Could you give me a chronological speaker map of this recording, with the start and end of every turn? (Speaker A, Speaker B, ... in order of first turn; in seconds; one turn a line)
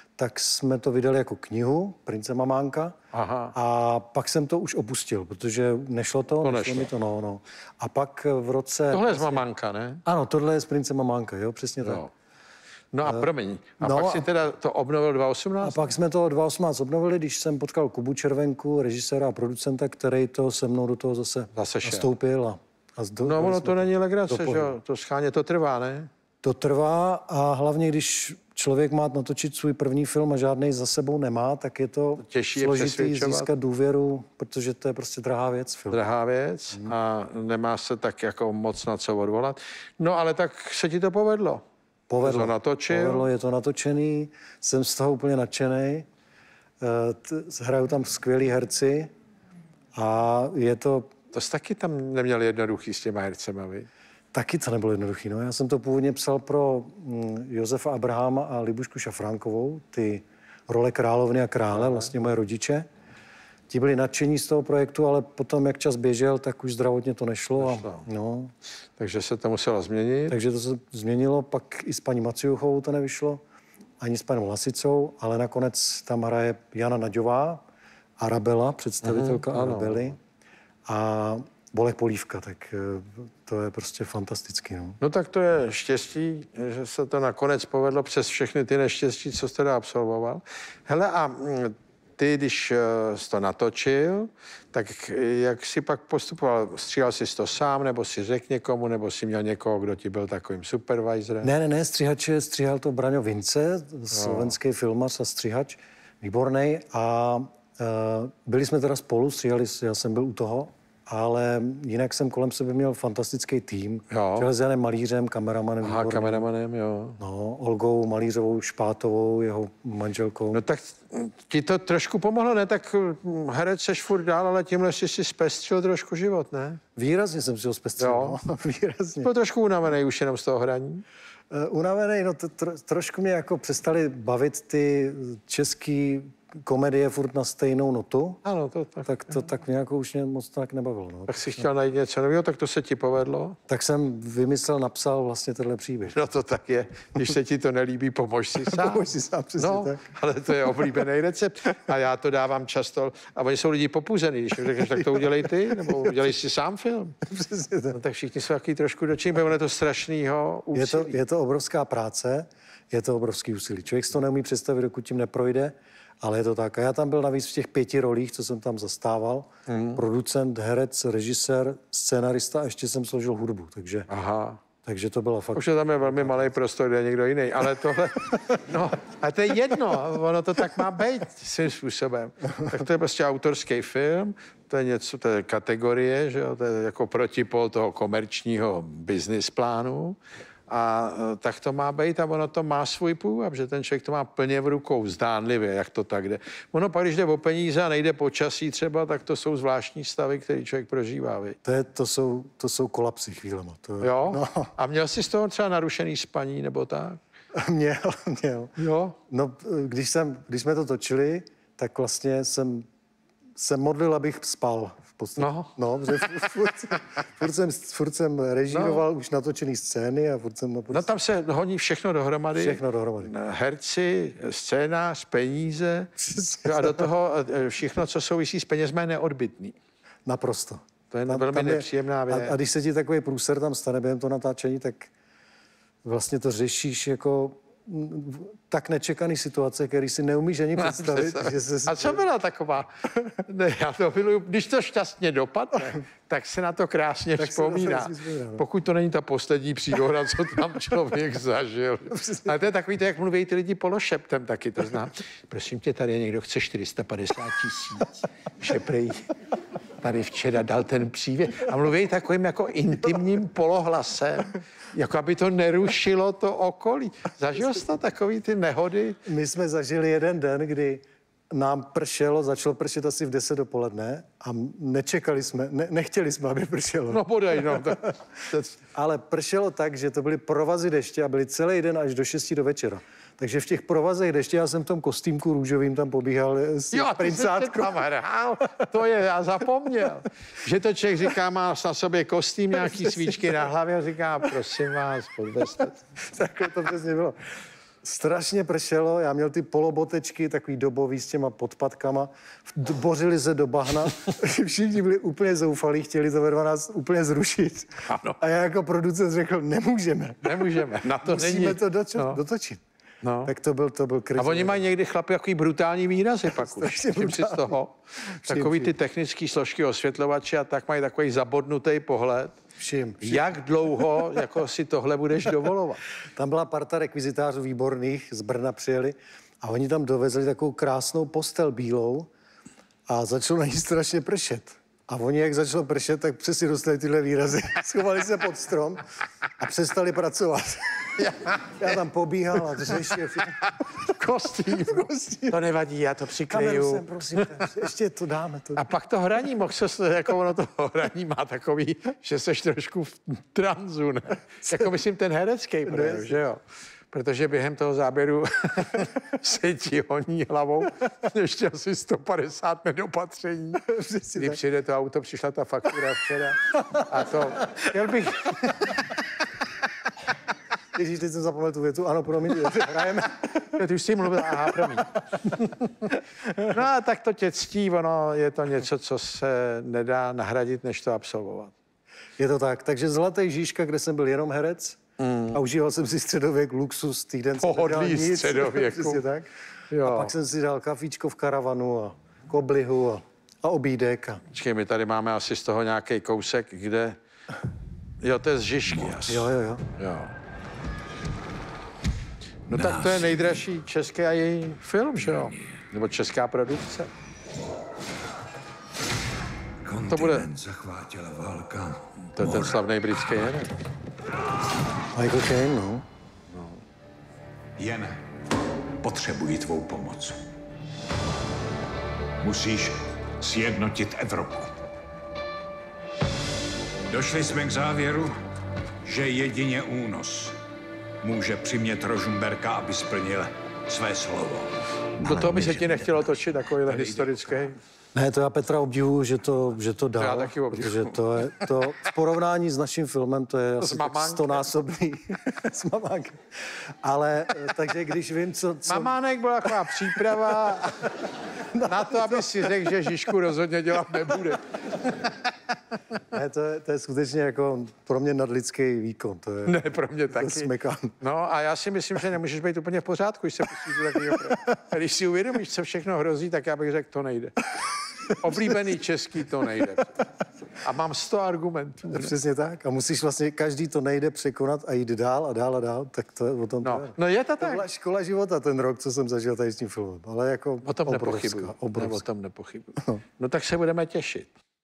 Speaker A: 0.2-2.9
Speaker B: 3.1-3.5
Speaker A: 3.5-9.4
Speaker B: 6.4-6.9
Speaker B: 8.9-10.0
Speaker A: 10.1-12.0
Speaker B: 11.8-12.1
Speaker B: 12.9-15.8
Speaker A: 13.0-14.3
Speaker A: 15.6-24.8
Speaker B: 21.5-22.1
Speaker B: 23.2-26.1
Speaker A: 26.4-36.0
Speaker B: 32.2-33.5
Speaker B: 35.9-41.6
Speaker A: 42.1-46.1
Speaker B: 42.2-43.3
Speaker A: 46.8-49.1
Speaker A: 49.9-51.1
Speaker B: 51.3-53.9
Speaker A: 54.3-62.9
Speaker B: 61.7-62.1
Speaker A: 63.7-68.5
Speaker B: 67.6-68.0
Speaker B: 69.0-70.4
Speaker A: 70.3-73.4
Speaker A: 74.0-77.6
Speaker A: 78.2-80.2
Speaker B: 79.0-80.1
Speaker A: 80.8-85.0
Speaker B: 85.0-101.5
Speaker A: 101.4-116.5
Speaker B: 104.1-104.5
Speaker B: 114.1-114.5
Speaker B: 115.8-117.2
Speaker A: 117.2-120.6
Speaker B: 120.5-126.8
Speaker A: 127.0-129.3
Speaker B: 128.0-128.4
Speaker B: 129.2-131.0
Speaker A: 131.5-138.4
Speaker B: 138.4-139.1
Speaker A: 139.0-141.7
Speaker B: 141.3-143.6
Speaker A: 143.7-146.2
Speaker B: 146.1-157.2
Speaker A: 148.7-150.1
Speaker A: 154.8-156.2
Speaker A: 157.2-158.0
Speaker B: 157.9-161.2
Speaker A: 160.7-174.1
Speaker B: 169.7-170.0
Speaker B: 174.1-174.6
Speaker A: 174.8-176.4
Speaker B: 175.5-201.6
Speaker A: 201.6-204.7
Speaker B: 204.0-207.2
Speaker A: 207.5-208.8
Speaker B: 208.8-209.2
Speaker A: 209.3-212.8
Speaker A: 213.6-221.1
Speaker B: 215.4-215.7
Speaker B: 218.7-219.0
Speaker B: 220.9-226.1
Speaker A: 222.5-223.3
Speaker A: 226.2-227.1
Speaker B: 226.6-229.8
Speaker A: 230.2-235.1
Speaker B: 231.1-232.6
Speaker A: 236.0-242.2
Speaker B: 240.8-259.3
Speaker A: 247.4-248.6
Speaker A: 252.1-252.6
Speaker B: 260.0-269.2
Speaker A: 269.2-278.1
Speaker B: 277.1-278.8
Speaker A: 278.9-288.0
Speaker B: 286.9-296.0
Speaker A: 292.8-293.6
Speaker A: 296.2-297.4
Speaker A: 298.0-312.8
Speaker B: 308.1-308.4
Speaker B: 310.4-312.4
Speaker B: 313.2-313.5
Speaker A: 313.4-314.8
Speaker B: 314.4-322.5
Speaker A: 316.4-318.9
Speaker A: 322.8-324.2
Speaker B: 323.2-326.0
Speaker A: 326.3-332.3
Speaker A: 333.1-339.0
Speaker A: 339.6-341.2
Speaker B: 341.2-341.9
Speaker A: 341.8-344.1
Speaker B: 342.9-347.6
Speaker A: 344.8-345.6
Speaker A: 346.5-348.8
Speaker B: 348.8-369.2
Speaker A: 355.9-356.4
Speaker A: 363.8-364.6
Speaker A: 367.6-367.9
Speaker A: 370.9-373.8
Speaker B: 373.7-381.7
Speaker A: 382.4-389.5
Speaker B: 385.2-385.6
Speaker B: 387.6-389.2
Speaker B: 389.9-390.3
Speaker A: 390.0-394.4
Speaker B: 394.5-397.2
Speaker B: 398.2-400.3
Speaker A: 399.3-399.8
Speaker B: 402.7-407.1
Speaker C: 402.7-403.4
Speaker C: 409.8-412.6
Speaker B: 410.1-410.5
Speaker B: 412.3-413.7
Speaker A: 415.1-416.0
Speaker B: 416.5-416.8
Speaker C: 417.8-418.2
Speaker C: 419.0-420.4
Speaker C: 422.4-424.7
Speaker C: 427.1-428.4
Speaker C: 429.0-430.6
Speaker C: 431.2-436.0
Speaker B: 435.2-437.8
Speaker C: 436.9-437.3
Speaker A: 438.1-449.1
Speaker B: 440.1-441.2
Speaker B: 443.8-444.7
Speaker B: 448.9-451.2
Speaker A: 451.6-452.9
Speaker B: 451.8-455.8
Speaker A: 456.3-461.1
Speaker B: 459.6-470.2
Speaker A: 464.2-464.6
Speaker A: 468.3-468.8
Speaker B: 470.7-472.3
Speaker A: 472.1-482.2
Speaker B: 476.8-477.8
Speaker B: 480.8-484.5